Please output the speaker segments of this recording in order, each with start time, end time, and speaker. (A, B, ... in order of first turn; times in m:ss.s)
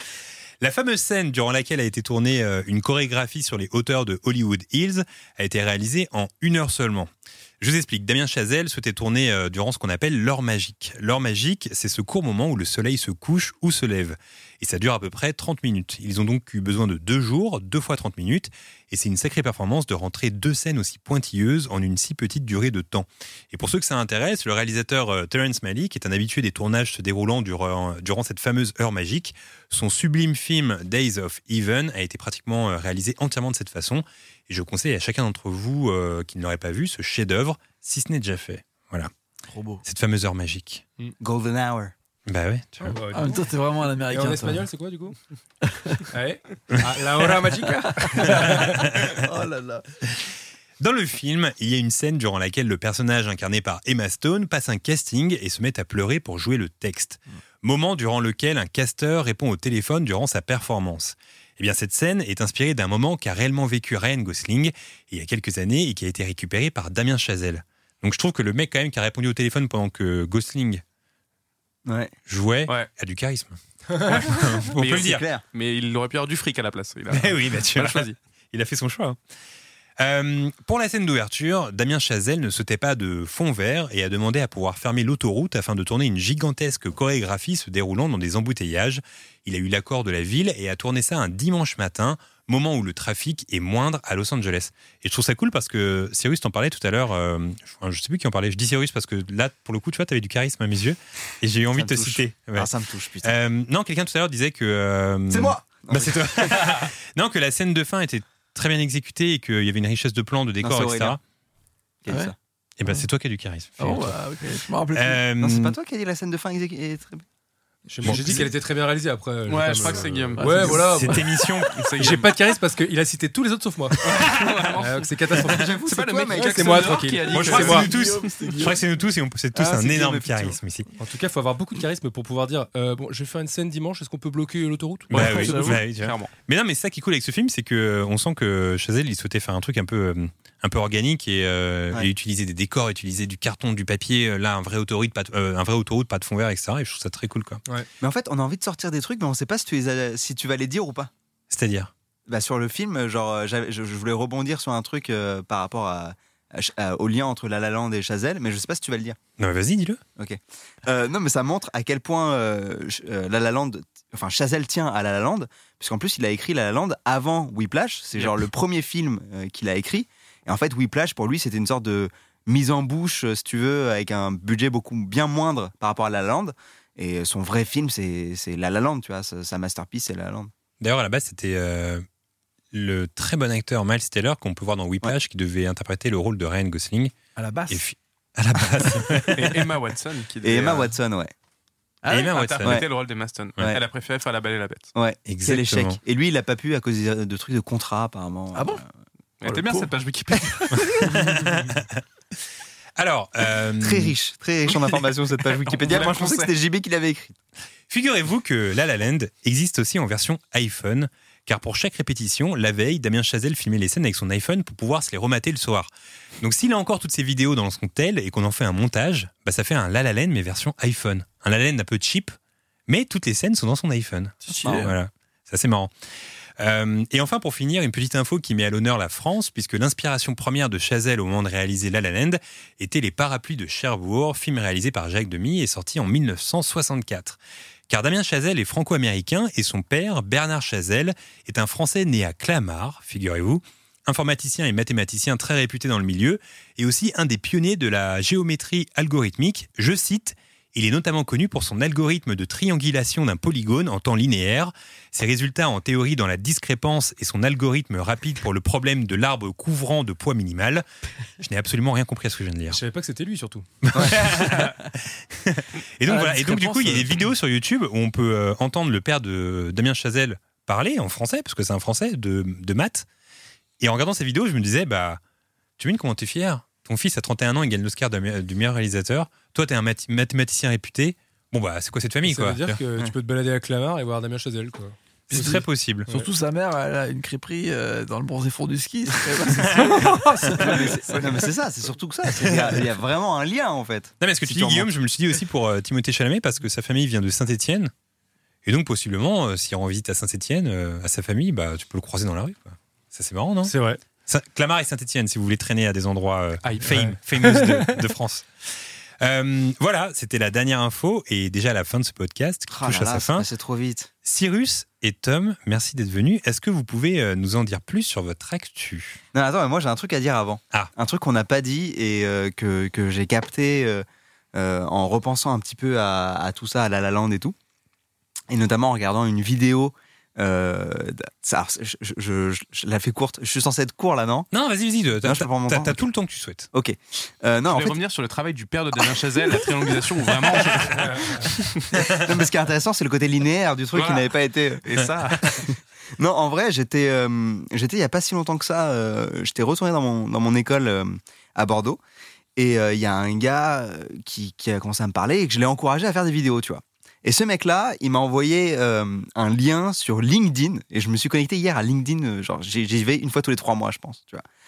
0:00.6-0:39.1 A
0:39.5-0:39.8 B
0:39.8-0:40.8 A
0:41.2-0:41.9 C
0:42.3-0:43.0 A
0:42.9-0:43.5 D
0:42.9-0:44.7 B
0:44.1-0:45.2 D
0:45.6-0:46.0 B
0:46.1-0:48.9 D
0:47.6-0:49.8 B
0:48.3-0:49.2 A
0:50.8-1:10.8 A
1:11.9-1:12.1 C
1:12.3-1:15.2 A
1:14.8-1:18.2 E
1:14.9-1:15.4 C
1:17.1-1:19.2 A
1:20.0-1:51.2 A
1:41.8-1:43.4 C
1:45.3-1:46.9 C
1:50.6-1:51.2 C
1:52.0-1:52.4 C
1:52.8-1:54.2 A
1:53.8-1:55.2 B
1:54.9-1:55.8 A
1:55.4-1:57.2 C
1:57.9-2:01.3 D
1:58.0-1:58.5 A
1:59.5-2:00.9 E
1:59.8-2:01.2 B
2:00.8-2:01.9 A
2:01.7-2:02.3 E
2:02.0-2:04.1 D
2:04.0-2:08.3 E
2:04.8-2:05.8 D
2:05.5-2:07.0 C
2:06.3-2:07.9 D
2:07.3-2:10.9 A
2:07.3-2:08.8 B
2:09.6-2:10.6 C
2:11.0-2:15.4 D
2:15.1-2:27.6 A
2:15.1-2:16.3 E
2:15.2-2:15.8 B
2:28.0-2:31.1 C
2:31.5-2:31.9 A
2:32.3-2:39.2 C
2:39.4-2:40.0 A
2:40.2-3:00.5 C
3:00.8-3:02.0 A
3:02.7-3:07.2 A
3:07.4-3:07.8 B
3:07.7-3:09.6 A
3:09.4-3:11.0 E
3:10.4-3:11.3 C
3:12.0-3:12.5 B
3:12.1-3:12.8 A
3:12.1-3:14.9 E
3:15.0-3:18.9 C
3:15.3-3:16.0 A
3:18.5-3:18.8 B
3:19.4-3:20.9 E
3:19.4-3:19.9 B
3:20.9-3:22.0 A
3:23.0-3:24.2 A
3:23.8-3:27.4 C
3:25.6-3:26.5 E
3:27.9-3:35.9 A
3:36.4-3:42.4 A
3:42.9-3:45.9 A
3:44.5-3:45.0 B
3:46.6-4:20.8 A
4:21.4-4:22.8 A
4:22.7-4:23.7 D
4:23.8-4:33.1 A
4:23.9-4:24.6 C
4:26.1-4:27.3 B
4:33.8-4:35.2 A
4:35.8-4:42.8 A
4:42.3-4:45.0 D
4:45.3-4:50.8 B
4:45.3-4:46.1 A
4:49.6-4:50.1 A
4:49.9-4:51.0 D
4:50.5-4:54.9 C
4:51.1-4:51.4 E
4:52.4-4:52.8 A
4:54.2-4:57.9 A
4:58.6-5:03.7 A
5:03.7-5:04.0 D
5:04.3-5:08.5 A
5:06.6-5:07.1 E
5:06.8-5:08.0 D
5:09.2-5:13.5 A
5:12.7-5:14.1 C
5:14.2-5:19.2 A
5:19.3-5:27.6 C
5:28.5-5:34.5 C
5:34.5-5:36.7 A
5:35.2-5:36.0 C
5:36.7-5:38.0 C
5:37.7-5:41.9 E
5:41.0-5:41.4 D
5:41.9-5:45.0 C
5:43.9-5:44.3 E
5:44.8-5:45.6 E
5:46.2-5:52.0 C
5:52.6-6:04.4 C